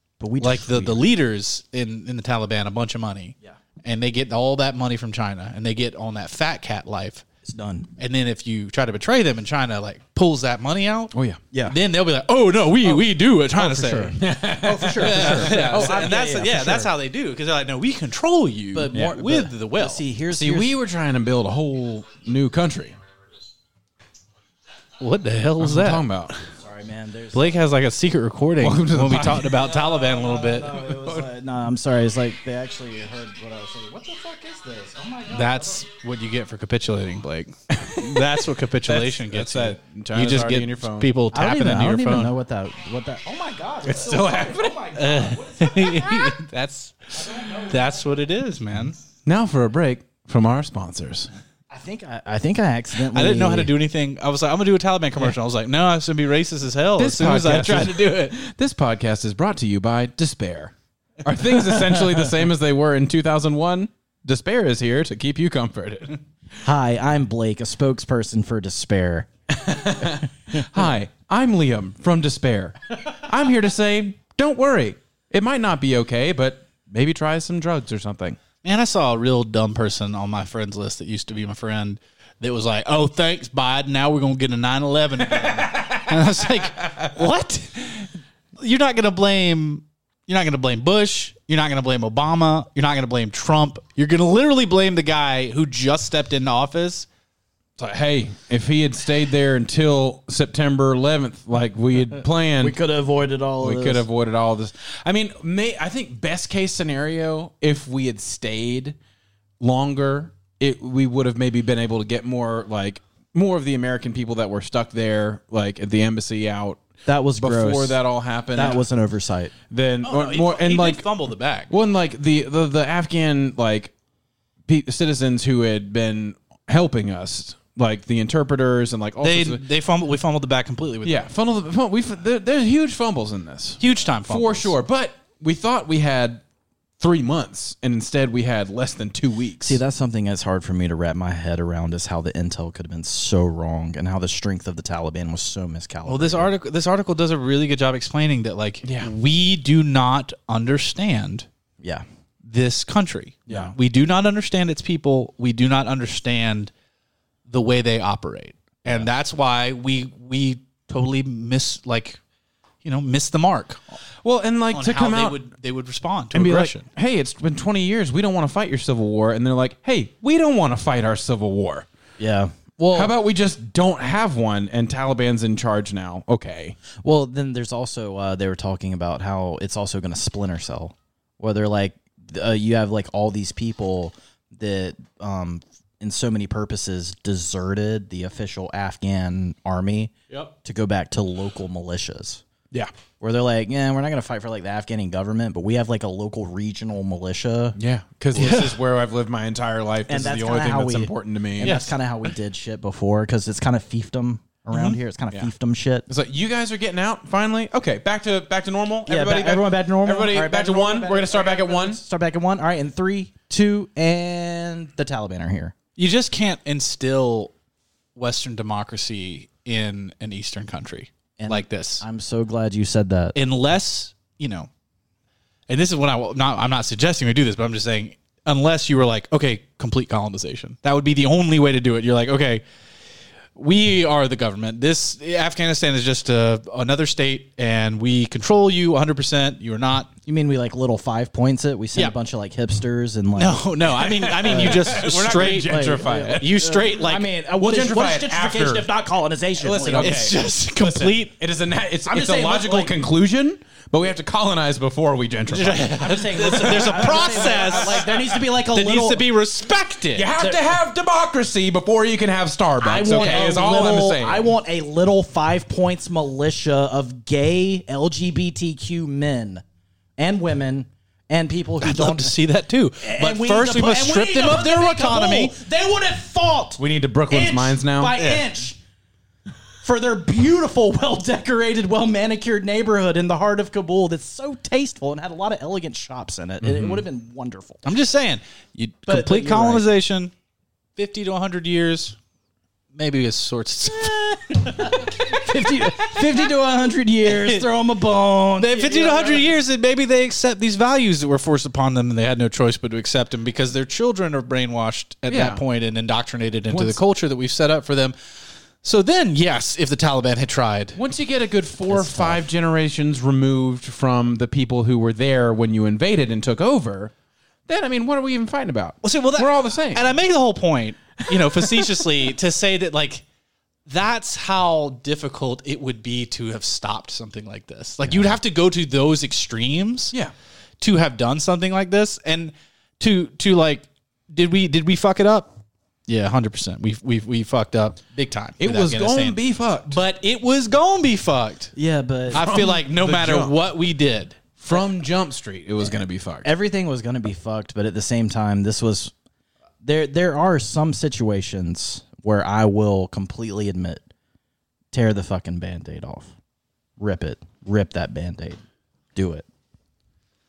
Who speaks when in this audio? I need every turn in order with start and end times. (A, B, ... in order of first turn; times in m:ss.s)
0:00.2-0:01.1 A
0:00.4-0:07.2 B
0:07.4-0:07.9 A
0:08.0-0:11.1 B
0:11.1-0:11.4 C
0:11.5-0:11.8 A
0:11.7-0:14.2 B
0:12.8-0:16.9 A
0:14.2-0:16.1 C
0:14.9-0:20.0 B
0:18.7-0:20.8 A
0:20.3-0:23.0 C
0:25.0-0:26.4 B
0:25.6-0:26.3 C
0:26.6-0:27.6 A
0:27.3-0:31.0 B
0:28.6-0:29.7 C
0:29.6-0:35.8 A
0:35.3-0:42.3 B
0:37.7-0:41.1 C
0:41.3-0:46.4 A
0:43.8-0:44.9 C
0:45.0-0:49.0 B
0:47.1-0:48.3 A
0:49.2-0:51.3 C
0:51.7-0:53.7 A
0:53.1-0:58.4 B
0:57.0-1:06.2 C
1:06.6-1:09.3 A
1:09.5-1:18.4 C
1:18.6-1:37.1 B
1:25.7-1:26.0 C
1:37.8-1:42.8 C
1:42.6-1:44.1 A
1:43.6-1:49.0 C
1:49.6-1:56.8 C
1:57.1-1:58.0 A
1:57.4-1:58.8 C
1:58.5-1:59.5 A
1:59.7-2:01.1 C
2:00.0-2:01.7 B
2:01.7-2:03.9 C
2:04.7-2:09.6 C
2:09.2-2:11.2 B
2:11.0-2:16.4 C
2:13.8-2:14.8 B
2:17.0-2:19.8 C
2:19.6-2:26.5 A
2:26.1-2:31.5 B
2:28.8-2:29.1 C
2:32.4-2:36.7 B
2:37.5-2:42.2 B
2:42.8-2:44.0 B
2:44.2-2:45.4 C
2:44.7-2:46.9 B
2:46.3-2:51.9 C
2:52.2-2:53.1 A
2:52.9-2:56.8 C
2:57.0-3:10.1 A
3:10.6-3:12.4 A
3:13.2-3:17.8 A
3:17.8-3:21.8 C
3:18.4-3:18.7 B
3:20.1-3:26.1 A
3:21.6-3:21.9 B
3:24.7-3:25.0 B
3:26.1-3:32.0 C
3:29.1-3:35.8 A
3:36.0-3:37.5 B
3:38.2-3:42.0 B
3:41.4-3:43.4 A
3:43.4-3:44.7 B
3:45.7-3:52.6 B
3:53.6-4:00.1 B
4:00.2-4:03.6 A
4:03.4-4:07.3 B
4:04.0-4:06.6 C
4:04.4-4:10.2 A
4:07.6-4:08.9 C
4:09.6-4:18.0 C
4:09.9-4:11.3 B
4:12.1-4:13.0 A
4:15.5-4:20.3 B
4:15.9-4:19.2 A
4:20.1-4:24.5 C
4:20.4-4:20.6 A
4:22.8-4:29.6 A
4:23.0-4:23.6 B
4:30.2-4:32.3 A
4:31.8-4:35.6 B
4:33.0-4:38.8 A
4:36.8-4:38.2 C
4:38.2-4:38.5 B
4:39.8-4:47.8 A
4:46.6-4:47.0 C
4:47.8-4:50.3 B
4:49.1-4:49.9 A
4:51.0-4:52.2 B
4:52.9-4:56.5 B
4:54.7-4:59.5 A
4:57.2-4:57.7 B
4:58.6-5:08.2 B
5:05.3-5:05.6 C
5:06.7-5:07.0 C
5:08.8-5:11.0 B
5:10.9-5:17.1 C
5:11.9-5:12.4 B
5:17.7-5:20.1 C
5:19.0-5:23.2 B
5:21.4-5:21.9 C
5:23.8-5:30.2 B
5:30.8-5:35.5 B
5:36.1-5:41.7 B
5:38.6-5:40.0 C
5:41.8-5:42.4 A
5:42.3-5:44.4 B
5:42.3-5:43.6 C
5:44.6-5:46.5 C
5:46.4-5:49.1 A
5:49.8-5:54.0 A
5:54.9-5:56.4 A
5:57.0-5:58.6 A
5:59.2-5:59.5 A